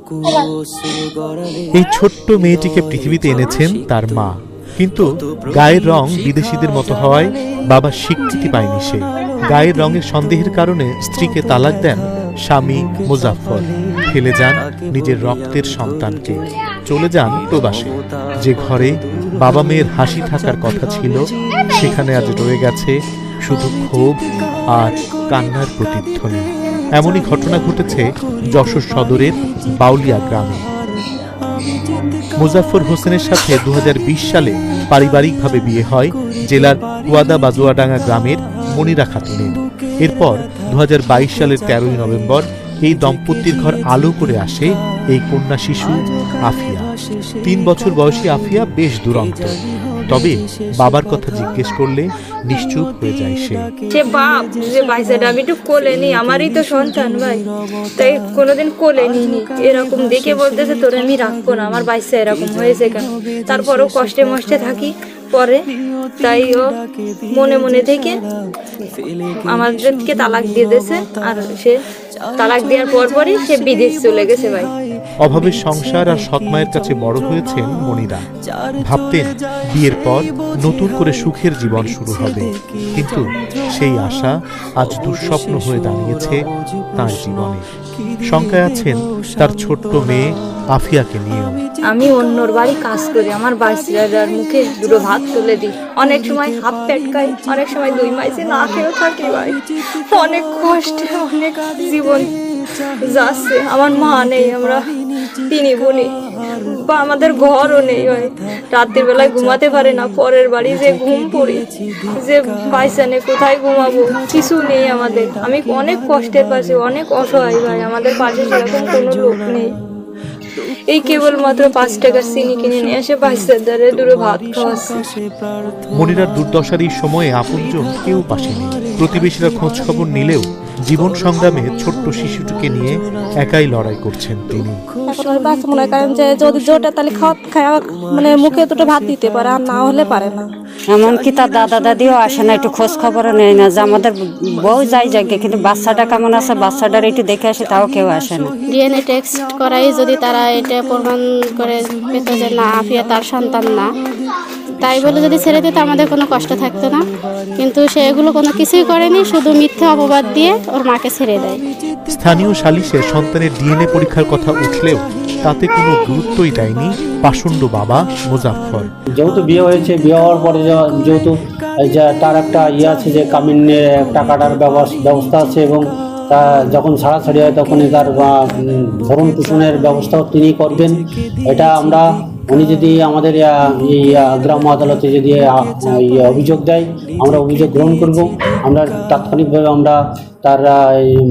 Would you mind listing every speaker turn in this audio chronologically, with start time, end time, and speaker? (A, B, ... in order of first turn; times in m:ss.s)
0:01.7-0:21.2 A
0:21.7-0:22.9 A
0:23.4-0:24.2 A
0:24.7-0:30.6 A
0:32.4-0:46.9 A
0:47.4-0:53.7 A
0:53.9-0:57.4 B
0:58.0-1:05.6 B
1:06.2-1:06.7 B
1:07.3-1:08.2 B
1:08.8-1:11.8 B
1:12.4-1:14.7 B
1:15.2-1:18.2 A
1:18.8-1:26.4 A
1:27.0-1:27.6 A
1:28.3-1:31.6 A
1:31.8-1:42.3 B
1:43.1-1:44.8 B
1:45.5-1:46.1 B
1:46.7-1:59.7 B
2:00.9-2:05.0 B
2:05.9-2:14.8 A
2:15.1-2:20.5 C
2:20.9-2:28.5 D
2:28.7-2:33.9 E
2:34.8-2:37.0 E
2:37.6-2:41.6 E
2:42.1-2:48.9 A
2:49.2-2:51.3 F
2:51.8-2:58.3 F
2:59.0-3:11.1 F